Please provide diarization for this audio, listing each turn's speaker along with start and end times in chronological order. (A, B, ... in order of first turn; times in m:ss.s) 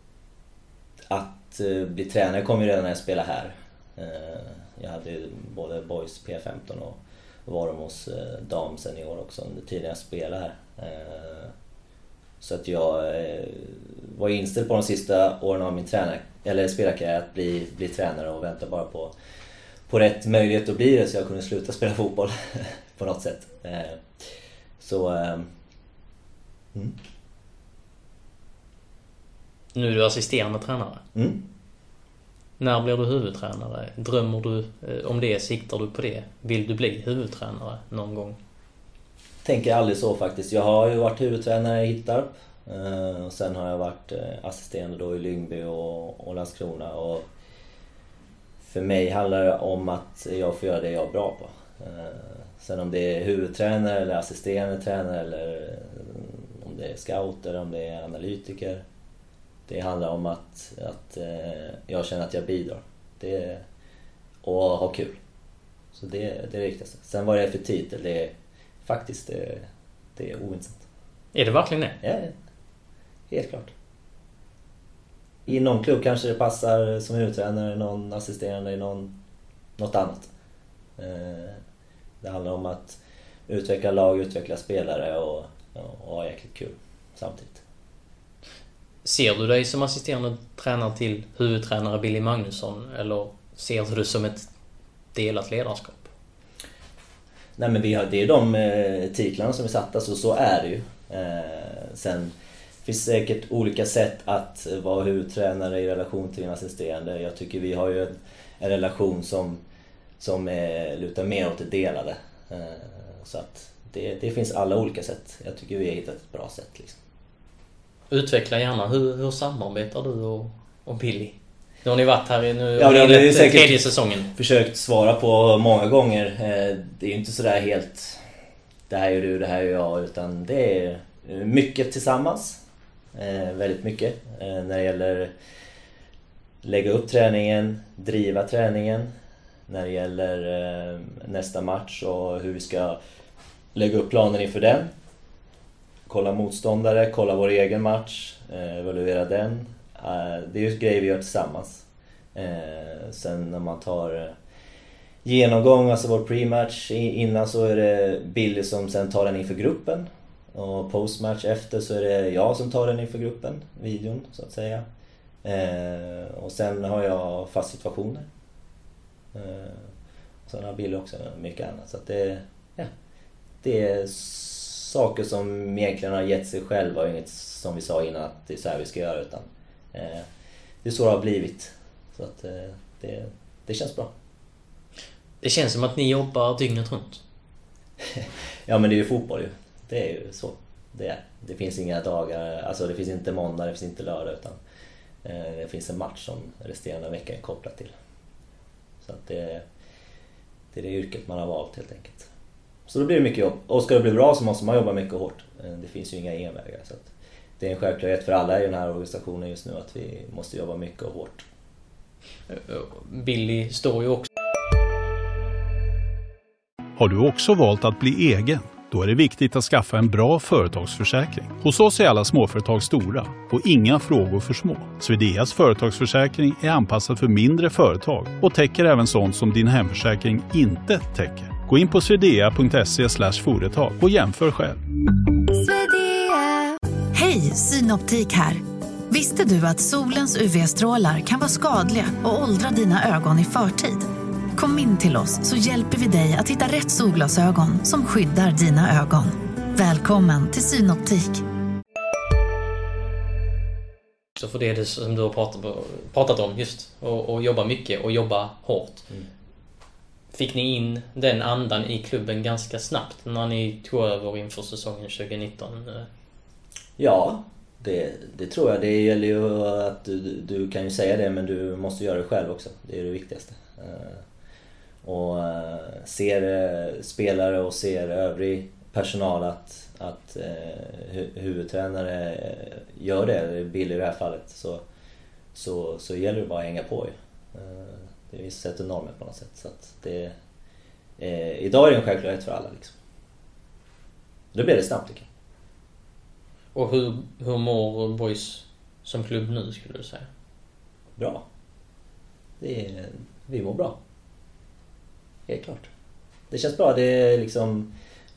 0:01.1-0:11.5 A
0:12.4-0:19.1 A
0:19.9-0:24.0 A
0:24.8-0:25.5 A
0:29.7-0:31.0 B
0:31.1-0:31.4 A
0:32.6-0:38.4 B
0:39.4-0:47.3 A
0:48.6-0:58.8 A
0:59.7-1:03.6 A
1:04.4-1:05.2 A
1:05.9-1:08.3 A
1:08.8-1:10.8 A
1:11.3-1:12.0 B
1:12.0-1:12.4 A
1:13.3-1:13.7 A
1:15.4-1:19.1 A
1:19.8-1:20.3 A
1:21.0-1:21.6 A
1:22.2-1:27.6 A
1:29.0-1:34.5 B
1:35.1-1:36.1 B
1:37.6-1:42.3 A
1:42.8-1:49.6 A
1:50.2-1:57.0 A
1:58.1-2:04.3 B
2:02.8-2:08.2 A
2:08.9-2:12.6 A
2:13.1-2:15.3 A
2:16.6-2:19.1 A
2:19.7-2:23.0 A
2:23.7-2:24.9 A
2:26.0-2:34.3 A
2:35.2-2:44.8 A
2:45.4-2:48.3 A
2:49.3-2:49.9 A
2:50.4-2:52.9 A
2:53.6-3:00.3 A
3:00.8-3:04.1 A
3:05.4-3:07.2 B
3:08.0-3:14.6 A
3:15.2-3:17.9 A
3:19.0-3:19.6 A
3:20.7-3:22.3 A
3:22.9-3:31.4 A
3:32.5-3:34.3 B
3:37.0-3:54.8 C
3:55.5-4:11.4 D
4:14.4-4:19.1 B
4:20.3-4:26.1 B
4:27.0-4:34.2 A
4:35.0-4:44.8 A
4:45.5-4:50.4 A
4:51.2-4:52.9 A
4:54.5-4:55.3 A
4:56.7-5:00.3 B
5:01.2-5:01.4 A
5:02.6-5:04.0 A
5:05.5-5:05.9 A
5:06.5-5:07.9 A